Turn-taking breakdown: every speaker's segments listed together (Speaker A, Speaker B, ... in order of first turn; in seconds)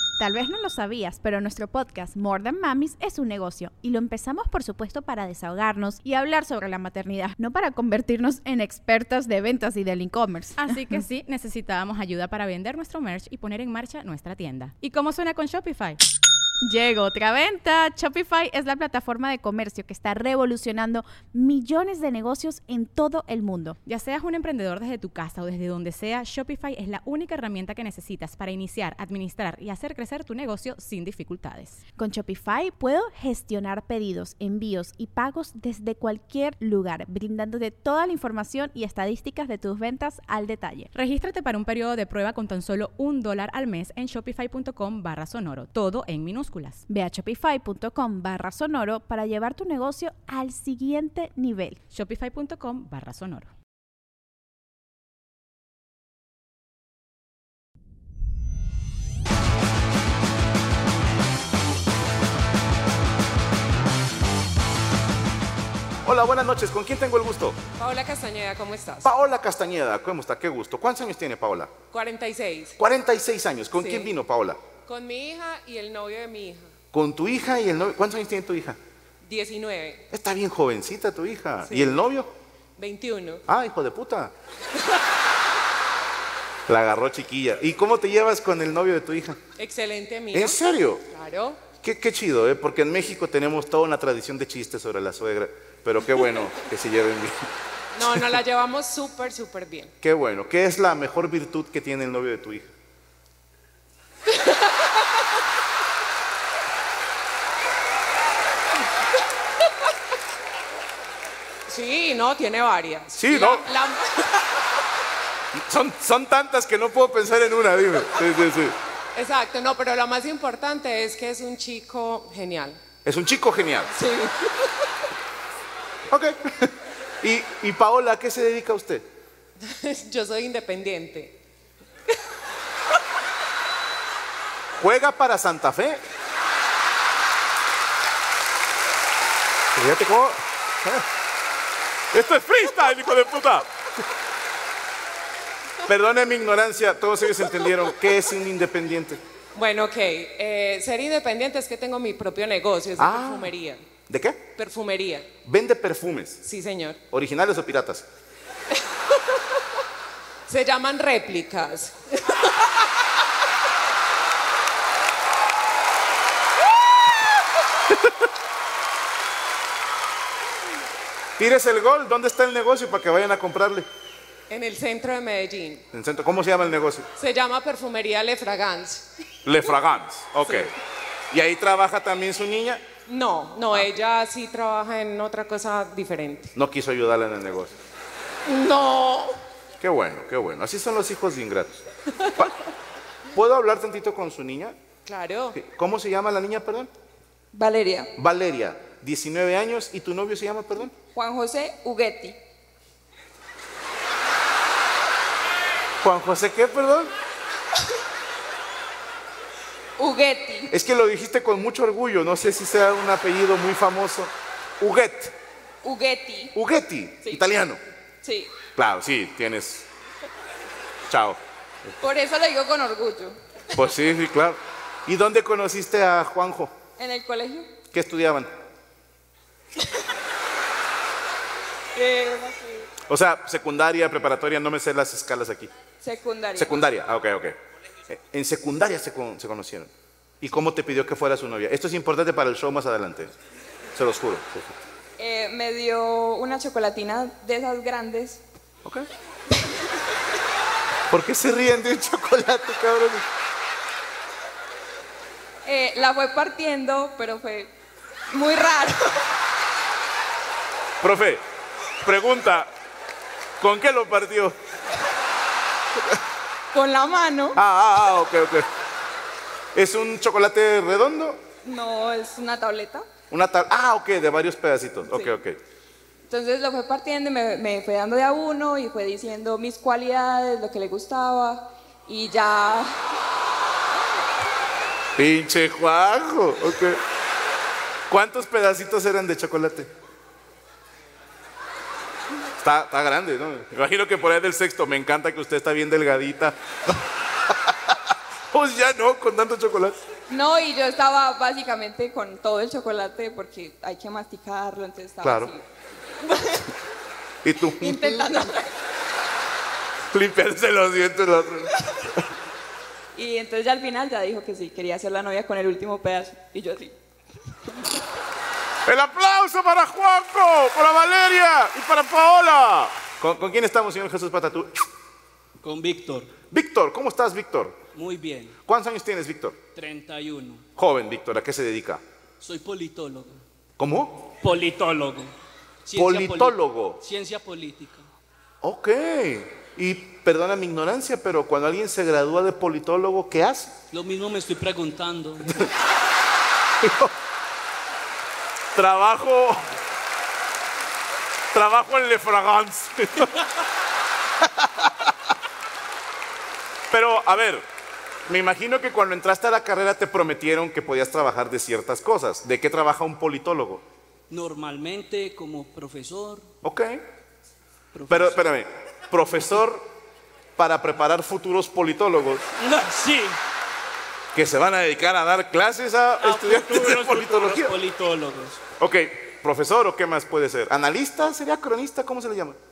Speaker A: 0.2-11.0, 16.6-23.8, 32.0-40.9, 46.9-51.8
Speaker B: 10.6-16.0, 23.9-31.8, 40.9-46.9, 51.9-53.5
Speaker C: 66.0-67.6, 69.0-71.7, 72.8-74.6, 76.9-78.8, 80.1-82.3, 83.5-84.3, 86.7-89.4, 90.3-91.0, 91.8-97.5, 98.0-98.4, 100.0-102.7, 113.1-113.7, 115.5-118.8, 123.0-123.9, 126.1-129.1, 134.8-136.0, 139.8-141.0, 142.1-143.7, 145.9-149.2, 153.0-154.5, 155.4-156.4, 157.1-158.1, 171.4-173.9, 175.9-177.1, 179.4-180.7, 181.3-182.8, 186.6-187.7, 189.8-192.5, 193.3-194.8, 195.5-196.9, 198.2-200.9, 206.0-207.1, 210.7-215.3, 216.6-217.8, 218.8-219.9, 221.1-221.4, 223.8-226.7, 227.9-228.5, 233.1-235.7, 236.6-237.6, 238.1-243.3, 244.0-244.7, 251.1-253.2, 261.0-261.4, 262.0-262.7, 263.6-264.6, 267.6-268.7, 269.8-271.4, 273.3-275.6, 285.2-287.0, 288.1-289.9, 292.6-296.9, 297.5-298.0, 298.5-300.0, 305.2-305.5, 307.4-308.2, 310.1-312.2, 318.9-324.8, 326.5-327.8, 328.7-329.6, 330.8-332.0, 333.8-334.3, 335.9-337.0, 338.6-343.8, 346.8-347.1, 348.8-349.6, 351.5-353.4, 354.5-355.1, 356.9-357.6, 358.3-363.8, 366.6-367.1, 368.1-369.9, 370.6-372.4, 374.4-377.8, 378.8-382.6
Speaker D: 67.8-69.1, 71.9-72.8, 73.7-74.1, 74.9-76.7, 79.2-80.0, 81.6-82.0, 82.8-83.4, 89.6-91.6, 98.0-99.9, 111.7-114.4, 119.2-122.8, 124.0-124.5, 129.6-131.4, 149.5-153.9, 154.6-155.3, 156.4-157.0, 160.5-162.0, 174.5-175.8, 177.2-179.1, 183.1-186.5, 188.5-189.1, 195.1-195.6
Speaker E: 197.5-198.1, 201.2-202.4, 210.0-210.6, 215.8-216.5, 218.2-218.5, 222.0-223.4, 227.0-227.7, 232.0-232.8, 236.0-236.8, 245.2-248.4, 255.7-257.7, 258.3-259.1, 266.7-267.5, 271.6-273.0, 276.3-282.9, 300.3-305.6, 306.2-306.6, 307.8-308.7, 313.2-316.9
Speaker F: 325.6-326.3, 327.9-328.5, 329.8-330.6, 332.4-333.4, 334.4-335.3, 335.9-338.1, 343.9-345.6, 364.3-366.5, 367.9-368.4, 372.6-373.4, 376.2-378.6